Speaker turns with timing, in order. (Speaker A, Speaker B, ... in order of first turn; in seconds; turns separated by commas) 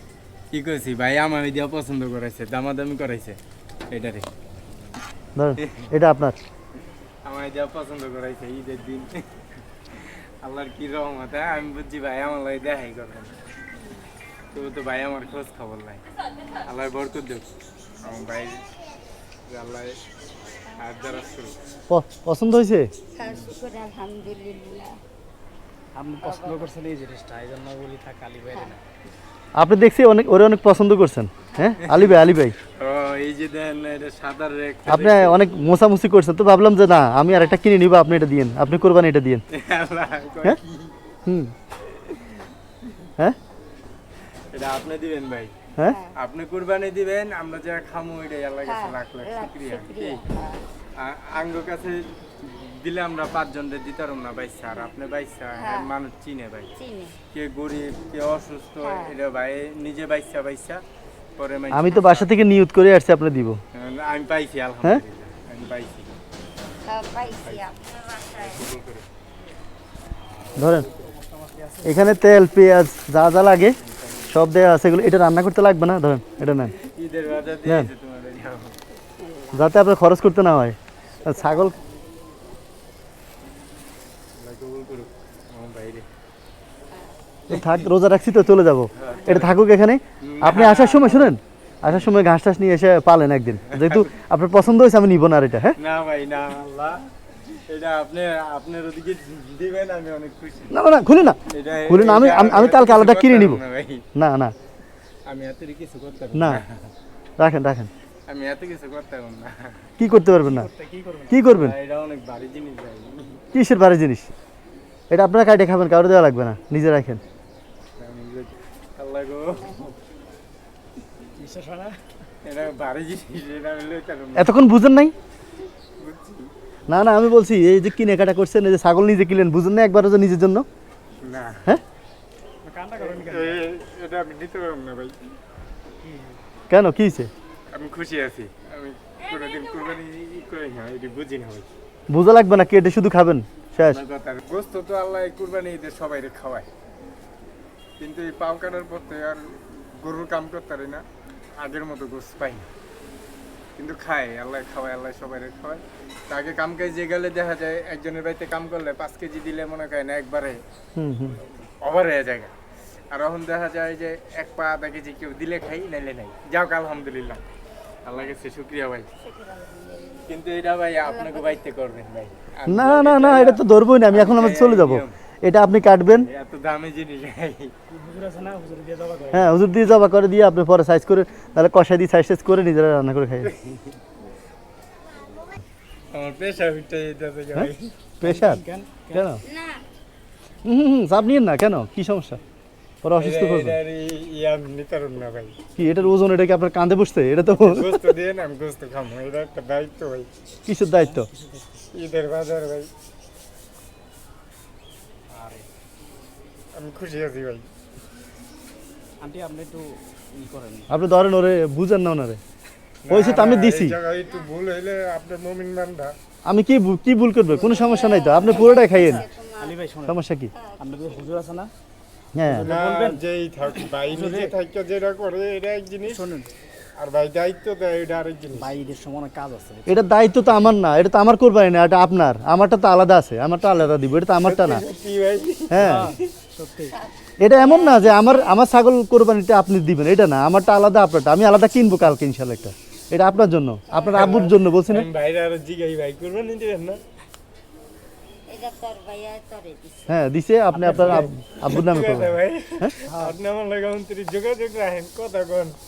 Speaker A: 0.5-3.4, Speaker A: 3.9-4.2, Speaker B: 5.3-6.3, Speaker A: 7.2-9.4, Speaker A: 9.9-13.3, Speaker A: 14.5-16.0, Speaker A: 16.6-17.4, Speaker A: 18.0-18.6, Speaker A: 19.5-20.0, Speaker A: 20.8-21.6, Speaker B: 21.9-22.9, Speaker C: 23.1-25.0, Speaker D: 25.9-28.8, Speaker C: 26.2-26.7, Speaker B: 29.6-32.5, Speaker C: 31.4-31.8, Speaker A: 31.8-35.5, Speaker B: 34.9-39.4, Speaker A: 39.5-40.9, Speaker B: 41.2-41.5, Speaker A: 44.5-45.5, Speaker C: 45.8-46.1, Speaker A: 46.1-50.2, Speaker C: 48.6-50.6, Speaker A: 51.0-56.7, Speaker C: 55.5-55.9, Speaker C: 56.8-57.2, Speaker A: 57.3-60.8, Speaker C: 58.8-59.1, Speaker A: 61.4-62.3, Speaker B: 61.7-63.6, Speaker A: 63.7-66.1, Speaker C: 66.8-68.7, Speaker A: 68.4-69.0, Speaker B: 70.5-70.9, Speaker D: 71.0-72.0, Speaker B: 71.8-73.8, Speaker A: 73.8-74.2, Speaker B: 74.3-76.7, Speaker A: 76.8-78.8, Speaker C: 79.0-79.8, Speaker B: 79.5-81.7, Speaker C: 81.1-82.6, Speaker A: 84.3-86.0, Speaker C: 86.9-87.2, Speaker B: 87.5-95.8, Speaker A: 87.5-87.9, Speaker A: 89.0-89.5, Speaker A: 90.2-92.1, Speaker A: 93.7-94.0, Speaker A: 95.8-97.0, Speaker A: 97.7-100.7, Speaker B: 100.7-103.6, Speaker A: 101.5-104.0, Speaker B: 104.1-104.5, Speaker A: 105.3-106.9, Speaker B: 106.3-106.6, Speaker B: 107.4-107.9, Speaker A: 108.3-109.9, Speaker B: 110.0-110.7, Speaker D: 110.4-111.3, Speaker B: 111.3-111.7, Speaker A: 111.5-113.4, Speaker B: 113.5-114.3, Speaker B: 115.1-117.2, Speaker A: 118.0-120.0, Speaker D: 121.4-122.0, Speaker A: 122.4-124.5, Speaker B: 124.3-125.1, Speaker A: 126.0-126.5, Speaker B: 126.9-130.7, Speaker A: 131.2-131.8, Speaker D: 132.6-133.6, Speaker A: 132.9-135.2, Speaker D: 136.0-136.4, Speaker B: 136.7-137.3, Speaker A: 137.7-141.7, Speaker C: 139.4-139.9, Speaker B: 142.1-144.0, Speaker A: 143.8-146.7, Speaker A: 148.0-151.0, Speaker A: 151.6-152.7, Speaker A: 153.8-160.6, Speaker B: 160.9-161.3, Speaker A: 161.3-162.5, Speaker A: 163.1-167.4, Speaker A: 168.0-169.1, Speaker C: 169.2-170.3, Speaker A: 170.3-175.1, Speaker C: 171.0-171.6, Speaker B: 172.7-176.3, Speaker A: 176.1-177.7, Speaker D: 177.9-179.5, Speaker B: 179.3-183.5, Speaker A: 183.5-183.8, Speaker A: 186.1-187.9, Speaker B: 187.5-189.4, Speaker D: 188.2-189.2, Speaker C: 189.4-189.8, Speaker B: 190.6-192.4, Speaker B: 193.0-193.8, Speaker A: 193.2-195.6, Speaker B: 195.8-198.0, Speaker A: 197.6-200.3, Speaker B: 200.7-201.3, Speaker D: 200.9-201.8, Speaker A: 201.9-202.9, Speaker A: 205.3-205.6, Speaker A: 206.7-207.7, Speaker D: 209.2-210.9, Speaker B: 210.9-212.4, Speaker A: 213.0-216.1, Speaker B: 213.1-213.9, Speaker C: 214.2-214.5, Speaker B: 216.4-219.2, Speaker C: 217.5-219.8, Speaker D: 218.9-220.2, Speaker B: 220.1-220.5, Speaker C: 220.5-221.3, Speaker D: 220.8-221.7, Speaker B: 222.3-222.7, Speaker D: 222.4-224.5, Speaker A: 222.6-226.2, Speaker D: 226.1-226.5, Speaker A: 227.0-228.7, Speaker D: 228.5-230.1, Speaker B: 229.8-234.8, Speaker A: 234.4-236.2, Speaker B: 235.7-236.1, Speaker D: 235.8-236.9, Speaker C: 236.9-238.6, Speaker B: 237.4-245.1, Speaker C: 243.9-244.3, Speaker A: 244.1-247.0, Speaker C: 248.5-250.2, Speaker B: 250.1-252.9, Speaker D: 250.7-251.2, Speaker A: 250.9-255.8, Speaker D: 253.1-253.3